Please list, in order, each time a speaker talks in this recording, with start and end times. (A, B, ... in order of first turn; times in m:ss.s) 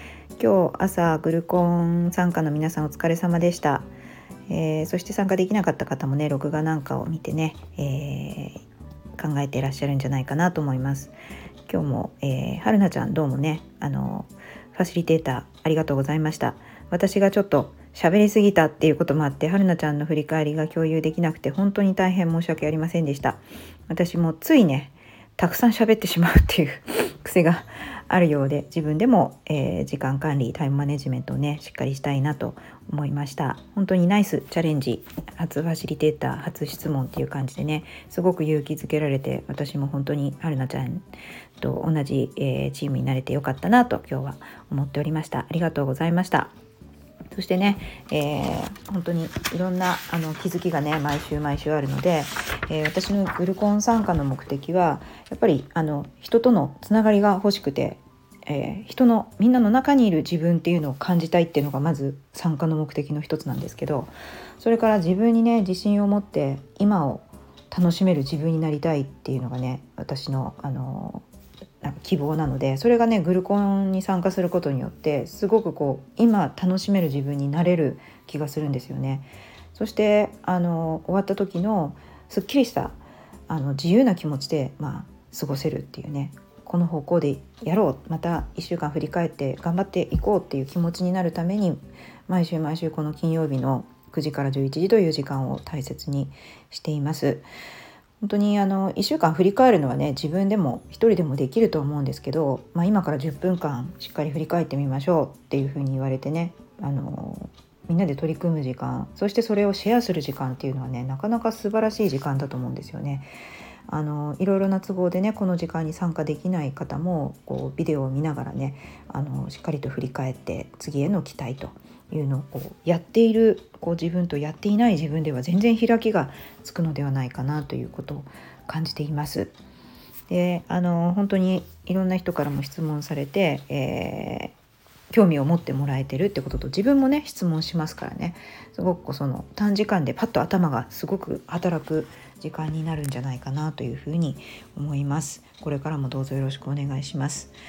0:00.4-0:03.9 A
0:04.5-0:08.6 A
0:09.2-0:11.1 A
0:11.7-0:41.0 A
0:41.6-0:46.5 A
0:47.3-1:11.3 A
1:11.8-1:23.0 A
1:23.5-1:37.5 A
1:38.2-1:53.3 A
1:53.9-2:09.5 A
2:10.3-2:14.5 A
2:15.1-2:27.5 A